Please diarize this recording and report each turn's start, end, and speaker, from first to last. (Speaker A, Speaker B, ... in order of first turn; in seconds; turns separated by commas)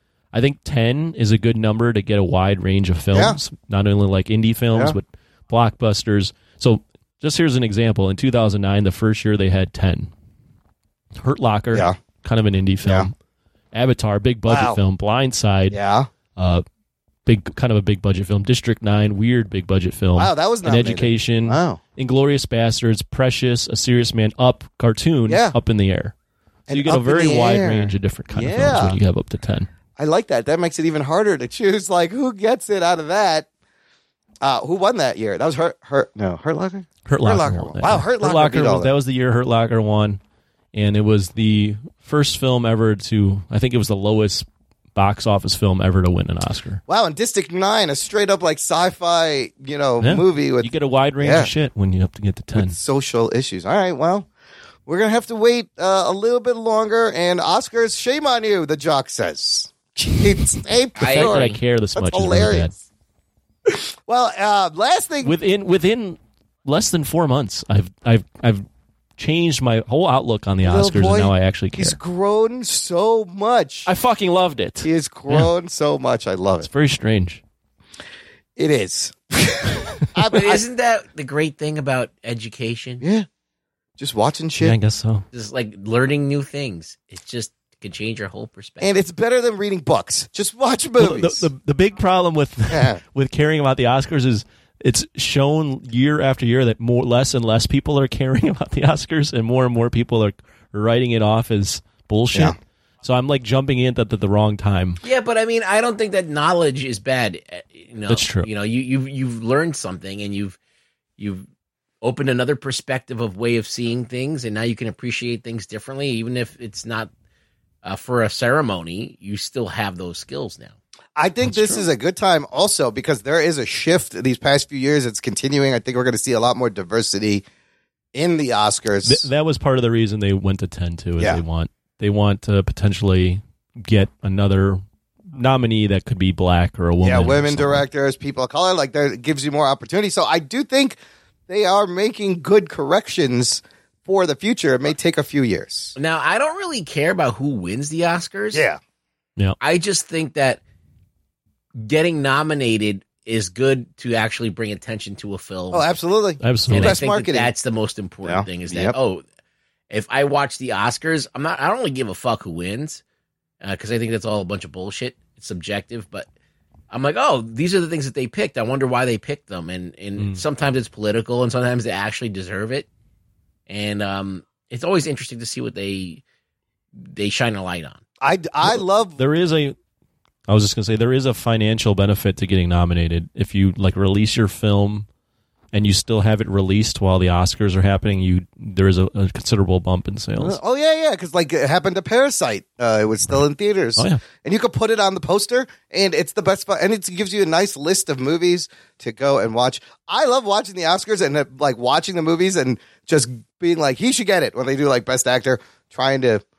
Speaker A: 0.3-10.1, Speaker B: 3.1-3.4, Speaker A: 11.2-13.1, Speaker B: 12.8-13.1, Speaker A: 13.7-15.8, Speaker B: 14.5-14.8, Speaker B: 15.7-16.1, Speaker A: 16.4-16.6, Speaker A: 17.3-26.1, Speaker B: 20.2-21.8, Speaker B: 25.3-25.6, Speaker B: 26.7-29.0, Speaker A: 26.7-29.7, Speaker B: 30.0-33.5, Speaker B: 34.4-38.9, Speaker A: 37.1-40.2, Speaker A: 40.7-46.8, Speaker B: 46.9-51.5, Speaker A: 50.0-52.8, Speaker B: 52.5-54.3, Speaker B: 54.9-62.7, Speaker C: 61.0-61.6, Speaker A: 61.0-62.7, Speaker B: 63.7-65.4, Speaker A: 65.2-68.7, Speaker A: 69.2-72.0, Speaker B: 70.6-73.9, Speaker A: 73.9-75.5, Speaker B: 74.8-76.7, Speaker A: 76.6-77.4, Speaker B: 78.6-80.6, Speaker C: 80.3-83.0, Speaker B: 83.0-83.3, Speaker B: 84.0-84.8, Speaker A: 84.6-85.2, Speaker C: 85.3-88.9, Speaker B: 88.8-91.5, Speaker A: 91.0-105.0, Speaker B: 92.7-93.0, Speaker C: 105.0-110.6, Speaker A: 108.1-108.5, Speaker C: 111.2-111.5, Speaker C: 112.0-117.1, Speaker C: 117.8-120.8, Speaker B: 121.2-127.4, Speaker A: 121.4-121.9, Speaker B: 128.2-129.3, Speaker A: 129.1-134.8, Speaker A: 135.3-137.8, Speaker B: 137.0-141.0, Speaker B: 141.5-145.9, Speaker C: 146.0-148.6, Speaker B: 148.5-148.8, Speaker C: 149.6-150.6, Speaker C: 151.8-155.9, Speaker B: 155.7-157.5, Speaker A: 156.4-157.0, Speaker C: 156.7-159.2, Speaker B: 158.2-159.0, Speaker C: 159.9-163.0, Speaker C: 163.6-166.3, Speaker C: 166.9-172.9, Speaker C: 173.7-176.2, Speaker C: 177.0-178.0, Speaker B: 178.2-179.2, Speaker A: 178.6-179.8, Speaker A: 180.5-185.1, Speaker A: 185.7-190.6, Speaker B: 190.4-206.4, Speaker A: 194.0-194.2